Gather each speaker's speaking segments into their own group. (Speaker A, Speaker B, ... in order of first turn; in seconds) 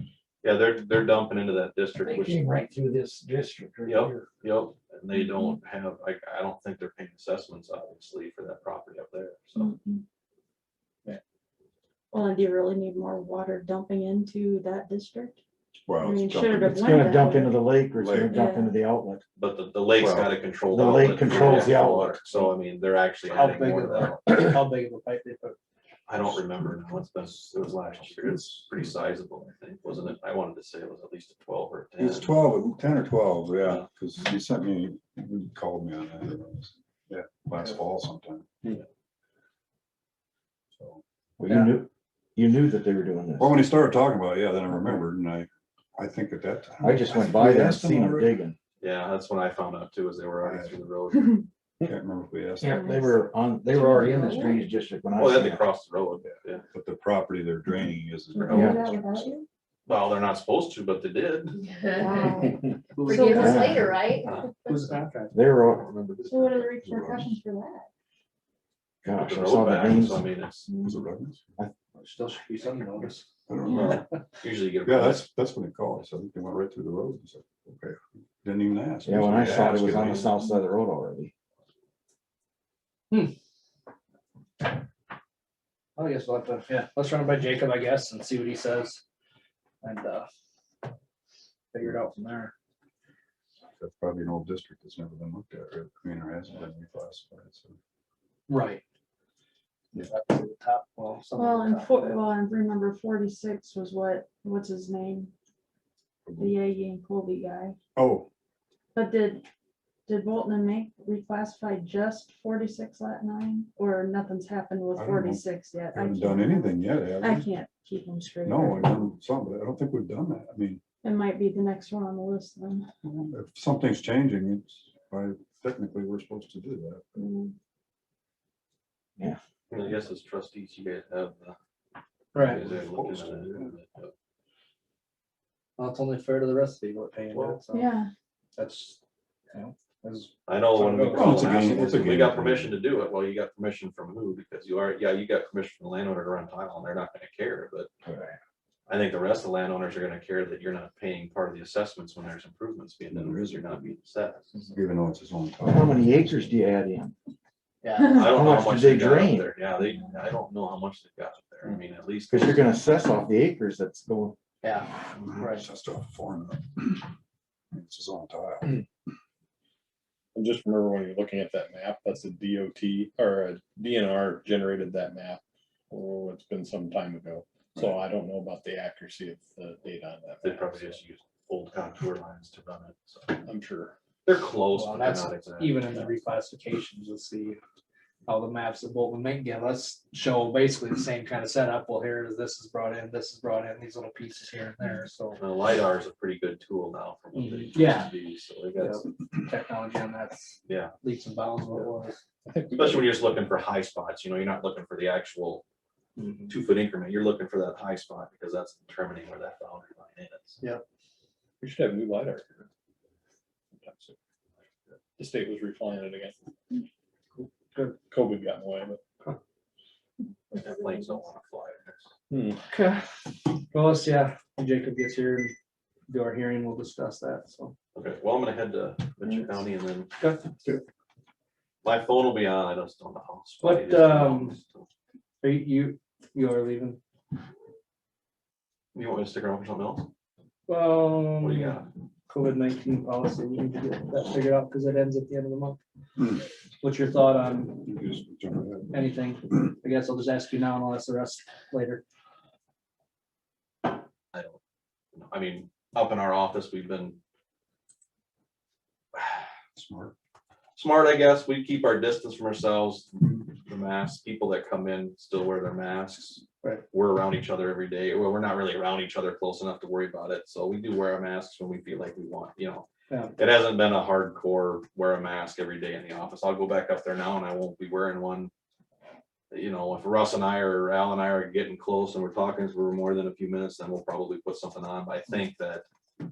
Speaker A: 0.4-2.6, 3.9-9.7, 19.4-24.3, 26.1-32.4, 48.8-51.4, 55.1-56.6, 59.9-61.6, 64.2-64.5, 69.1-70.7, 73.7-75.3, 129.7-131.6, 132.3-134.1, 137.3-137.6, 140.5-147.9, 148.9-154.6, 158.0-162.8, 180.4-183.4, 184.3-186.2, 195.4-199.1, 200.7-200.9, 202.7-205.6, 206.5-210.6, 220.6-222.1, 227.9-230.1, 231.8-234.9, 238.9-240.1, 241.4-241.9, 254.3-254.6, 255.1-257.2, 260.8-272.9, 273.4-278.5, 279.5-285.9
Speaker B: 2.0-4.3, 16.6-19.2, 20.7-22.2, 41.4-43.6, 46.8-48.5, 52.6-55.6, 58.5-58.8, 63.4-63.8, 65.3-66.5, 69.0-70.3, 79.0-81.3, 148.1-148.4, 155.6-157.1, 158.1-159.5, 162.3-164.4
Speaker C: 5.2-5.5, 9.6-10.0, 12.1-15.4, 16.0-17.6, 18.3-18.8, 52.6-54.6, 58.4-59.5, 62.0-63.5, 66.3-67.9, 70.7-71.0, 101.4-105.3, 106.4-107.8, 108.9-109.5, 110.1-119.1, 121.0-122.9, 127.2-127.5, 137.7-138.1
Speaker D: 15.8-16.8, 18.0-18.4, 19.9-20.3, 32.0-38.5, 40.7-41.0, 43.4-48.4, 50.4-50.7, 51.8-52.9, 56.7-59.4, 66.8-67.3, 70.8-71.5, 73.5-74.0, 74.8-80.4, 93.8-97.8, 106.3-106.6, 108.0-108.3, 115.0-117.5, 118.5-120.8, 123.0-127.3, 132.5-133.8, 141.1-142.8, 153.1-153.7, 154.7-156.6, 165.2-167.1, 167.7-168.8, 246.2-246.4, 247.8-249.1, 259.8-260.1
Speaker E: 23.2-25.6, 41.5-41.8, 63.0-63.9, 64.7-65.3, 72.0-73.3, 86.0-89.0, 89.8-90.3, 91.7-92.5, 98.5-98.8, 100.0-102.2, 132.3-132.6, 135.8-137.9, 138.6-139.0, 139.5-142.1, 184.7-187.6, 188.3-195.4, 197.3-198.1, 198.8-202.2, 206.2-206.6, 217.3-218.0, 222.7-223.0, 223.7-225.5, 226.1-227.7, 230.2-230.4, 233.6-234.6, 235.4-237.0, 240.7-245.8, 246.8-247.9, 248.9-252.0
Speaker F: 61.7-62.5, 63.1-64.3
Speaker G: 170.3-181.0, 183.4-184.0, 202.4-203.2, 211.6-212.7, 213.7-214.2, 215.2-216.4, 218.1-219.0, 222.3-222.6